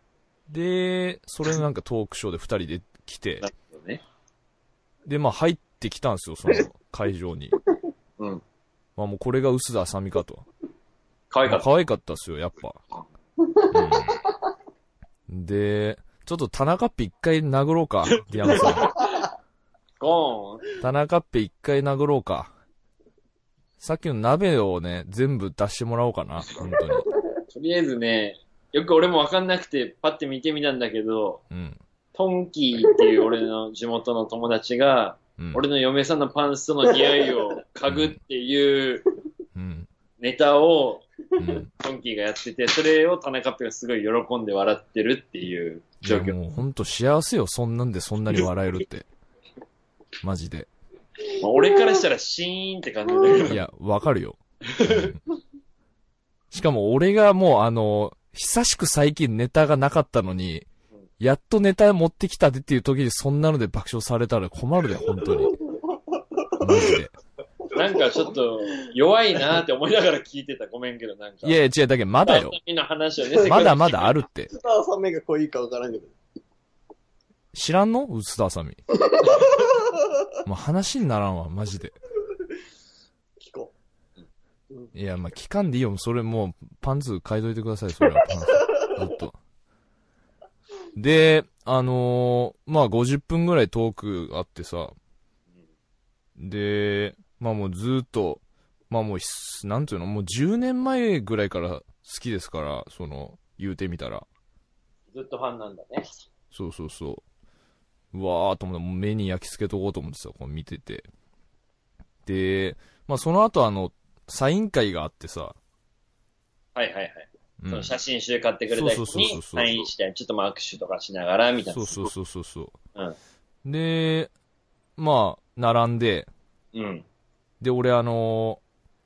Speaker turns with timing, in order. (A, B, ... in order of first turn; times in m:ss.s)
0:00.5-0:03.4 A
0:03.4-0:04.0 B
0:05.0-0:07.5 A
0:09.0-0:10.4 A
0:11.3-0:11.7 B
0:11.4-0:12.8 A
0:13.7-0:14.2 A
0:15.3-0:18.9 A
0:18.4-0:19.1 B
0:20.0-0:20.7 B
0:20.8-0:22.5 A
0:23.8-0:27.1 A
0:27.5-0:31.4 B
0:31.5-0:31.8 A
0:32.1-0:39.0 B
0:37.9-0:38.2 A
0:39.5-0:39.9 A
0:40.2-0:41.1 B
0:41.4-0:41.7 A
0:41.8-0:46.4 B
0:46.0-0:49.1 A
0:50.2-0:50.7 A
0:51.4-0:53.6 B
0:53.4-0:55.2 A
0:54.7-0:55.1 B
0:56.5-1:00.6 A
1:01.2-1:05.5 A
1:05.7-1:06.7 C
1:06.6-1:07.1 A
1:07.7-1:11.6 B
1:11.4-1:12.5 A
1:12.2-1:14.2 B
1:13.3-1:13.6 C
1:13.4-1:14.5 A
1:14.5-1:16.1 C
1:17.5-1:18.8 A
1:19.1-1:20.1 C
1:20.4-1:21.9 A
1:23.4-1:23.7 C
1:24.9-1:29.4 A
1:28.5-1:28.9 C
1:31.0-1:34.9 A
1:36.4-1:44.2 A
1:45.1-1:46.1 B
1:46.5-1:47.2 A
1:48.1-1:51.1 A
1:52.2-1:55.6 A
1:56.7-2:02.1 B
1:57.6-1:57.9 A
1:58.7-1:59.9 A
2:01.7-2:02.7 A
2:03.6-2:04.3 A
2:05.0-2:06.3 A
2:06.7-2:07.0 B
2:07.6-2:08.6 A